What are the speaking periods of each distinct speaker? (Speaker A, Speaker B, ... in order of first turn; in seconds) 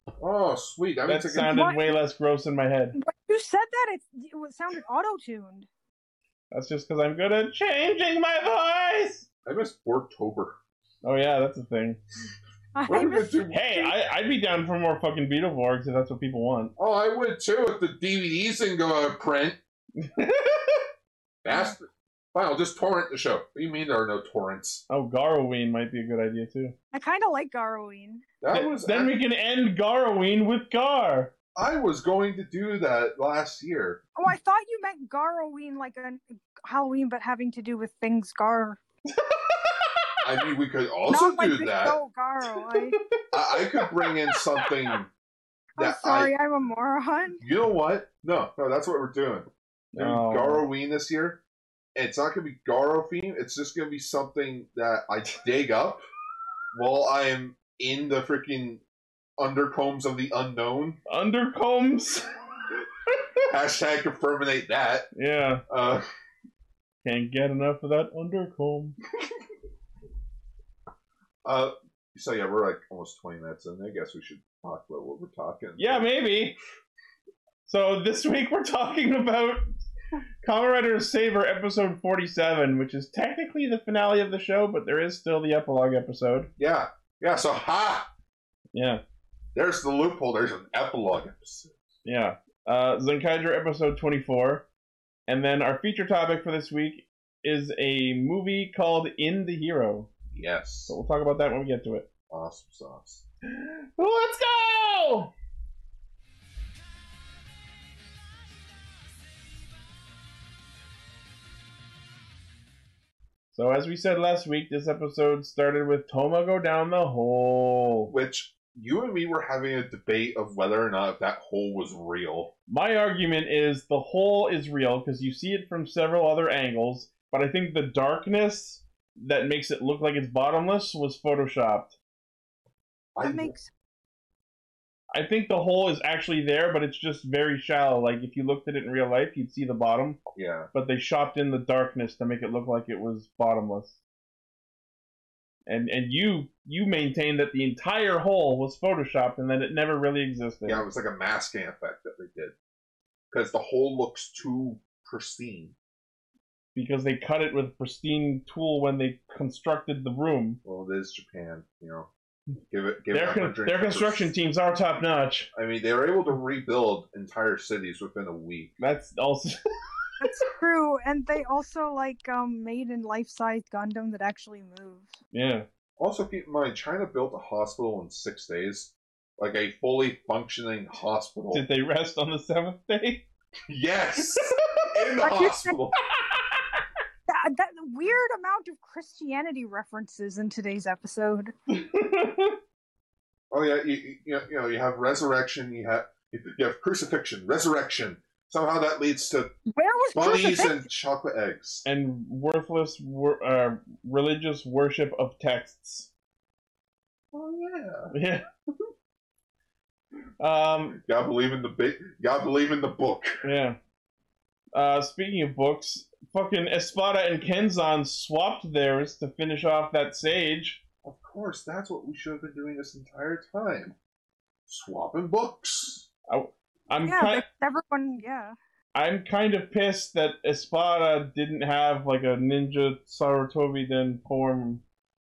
Speaker A: 0.2-1.6, 9.4-10.6, 12.9-13.9, 16.8-19.6, 21.4-24.8, 28.4-29.1, 31.6-34.0, 40.2-42.0, 43.3-45.1, 45.8-46.3, 47.4-51.4, 52.0-56.0, 56.7-58.8, 59.4-61.0, 63.5-65.1, 65.7-66.0, 71.5-76.1, 86.6-88.1, 89.5-91.8, 100.3-100.9, 102.3-103.2, 118.1-122.5, 133.2-133.5, 140.3-140.7, 150.7-152.5, 153.3-155.8, 160.6-162.1, 162.7-164.3, 165.5-168.7, 176.0-181.6, 183.7-186.0, 193.5-199.5, 200.1-201.8, 207.3-208.1, 211.0-213.4, 221.0-224.0, 224.7-226.1
Speaker B: 1.1-3.0, 6.5-9.2, 11.0-12.0, 13.5-16.7, 20.0-20.9, 24.9-26.8, 28.5-31.3, 39.2-39.7, 43.7-44.4, 49.9-50.6, 61.1-62.3, 65.1-65.6, 67.0-69.0, 75.8-76.5, 77.6-79.8, 80.4-86.5, 88.7-89.0, 92.0-94.7, 95.3-100.1, 100.9-102.1, 103.5-105.3, 113.5-118.1, 122.7-132.0, 135.1-140.2, 140.7-144.0, 145.7-150.8, 156.8-160.6, 163.1-165.5, 168.8-169.6, 175.3-175.7, 181.5-183.3, 186.2-186.6, 191.7-192.6, 201.8-206.1, 208.1-208.4, 210.4-211.0, 213.4-213.8, 214.7-220.8, 226.3-227.4, 228.9-234.8
Speaker C: 1.5-2.0, 3.0-5.7, 12.8-13.6, 26.9-28.2, 34.1-38.8, 41.1-43.0, 45.8-47.4, 133.2-133.7, 170.2-175.1, 185.2-185.8, 187.3-191.5, 199.7-200.8, 227.0-228.5